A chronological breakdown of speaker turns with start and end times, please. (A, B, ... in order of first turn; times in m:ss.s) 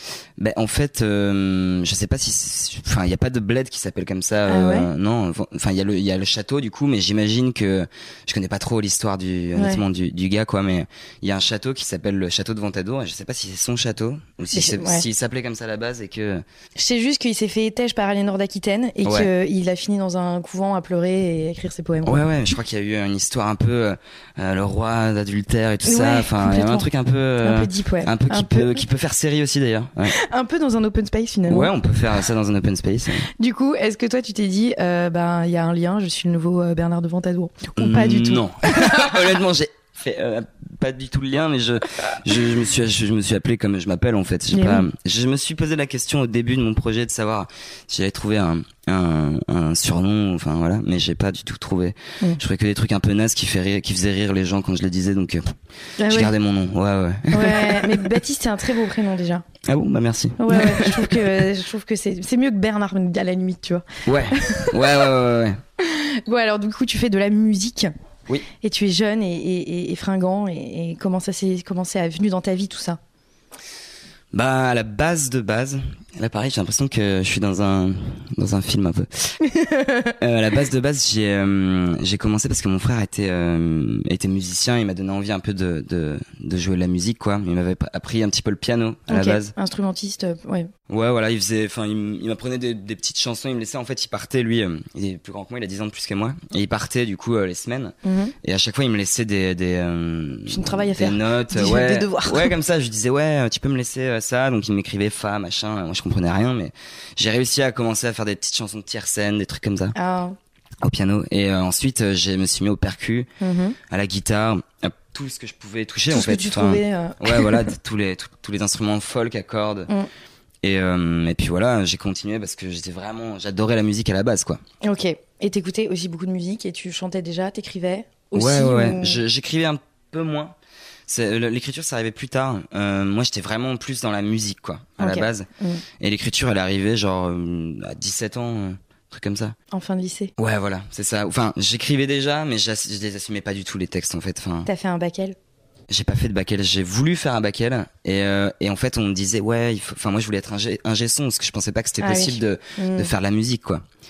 0:00.4-0:16.4 A
0:04.4-0:04.9 B
0:09.5-0:09.8 B
0:14.5-0:15.0 B
0:16.7-0:22.2 B
0:19.0-0:19.3 A
0:22.0-0:30.2 A
0:25.8-0:26.9 B
0:27.4-0:28.8 B
0:30.1-0:31.7 B
0:31.5-0:33.3 A
0:33.4-0:39.4 B
0:37.8-0:55.5 A
0:44.5-0:44.8 B
0:56.0-0:56.3 B
0:56.1-0:58.2 A
0:57.3-0:59.4 B
0:59.7-1:01.3 A
1:00.4-1:04.9 B
1:04.0-1:05.6 A
1:05.8-1:07.9 B
1:08.6-1:13.0 B
1:14.3-1:19.3 A
1:19.4-1:20.2 B
1:20.2-1:29.5 A
1:29.1-1:30.7 B
1:30.9-1:49.9 A
1:38.0-1:38.3 B
1:40.5-1:42.5 B
1:49.9-1:50.4 B
1:50.8-1:53.3 A
1:53.4-1:53.8 B
1:53.9-1:59.9 A
1:56.1-1:57.6 B
2:00.6-2:04.6 A
2:04.8-2:09.2 B
2:08.3-2:10.6 A
2:11.1-2:15.5 A
2:15.0-2:15.8 B
2:16.0-2:19.5 A
2:19.7-2:20.3 B
2:20.4-2:24.7 A
2:24.6-2:25.4 B
2:25.9-2:33.8 A
2:32.0-2:33.1 B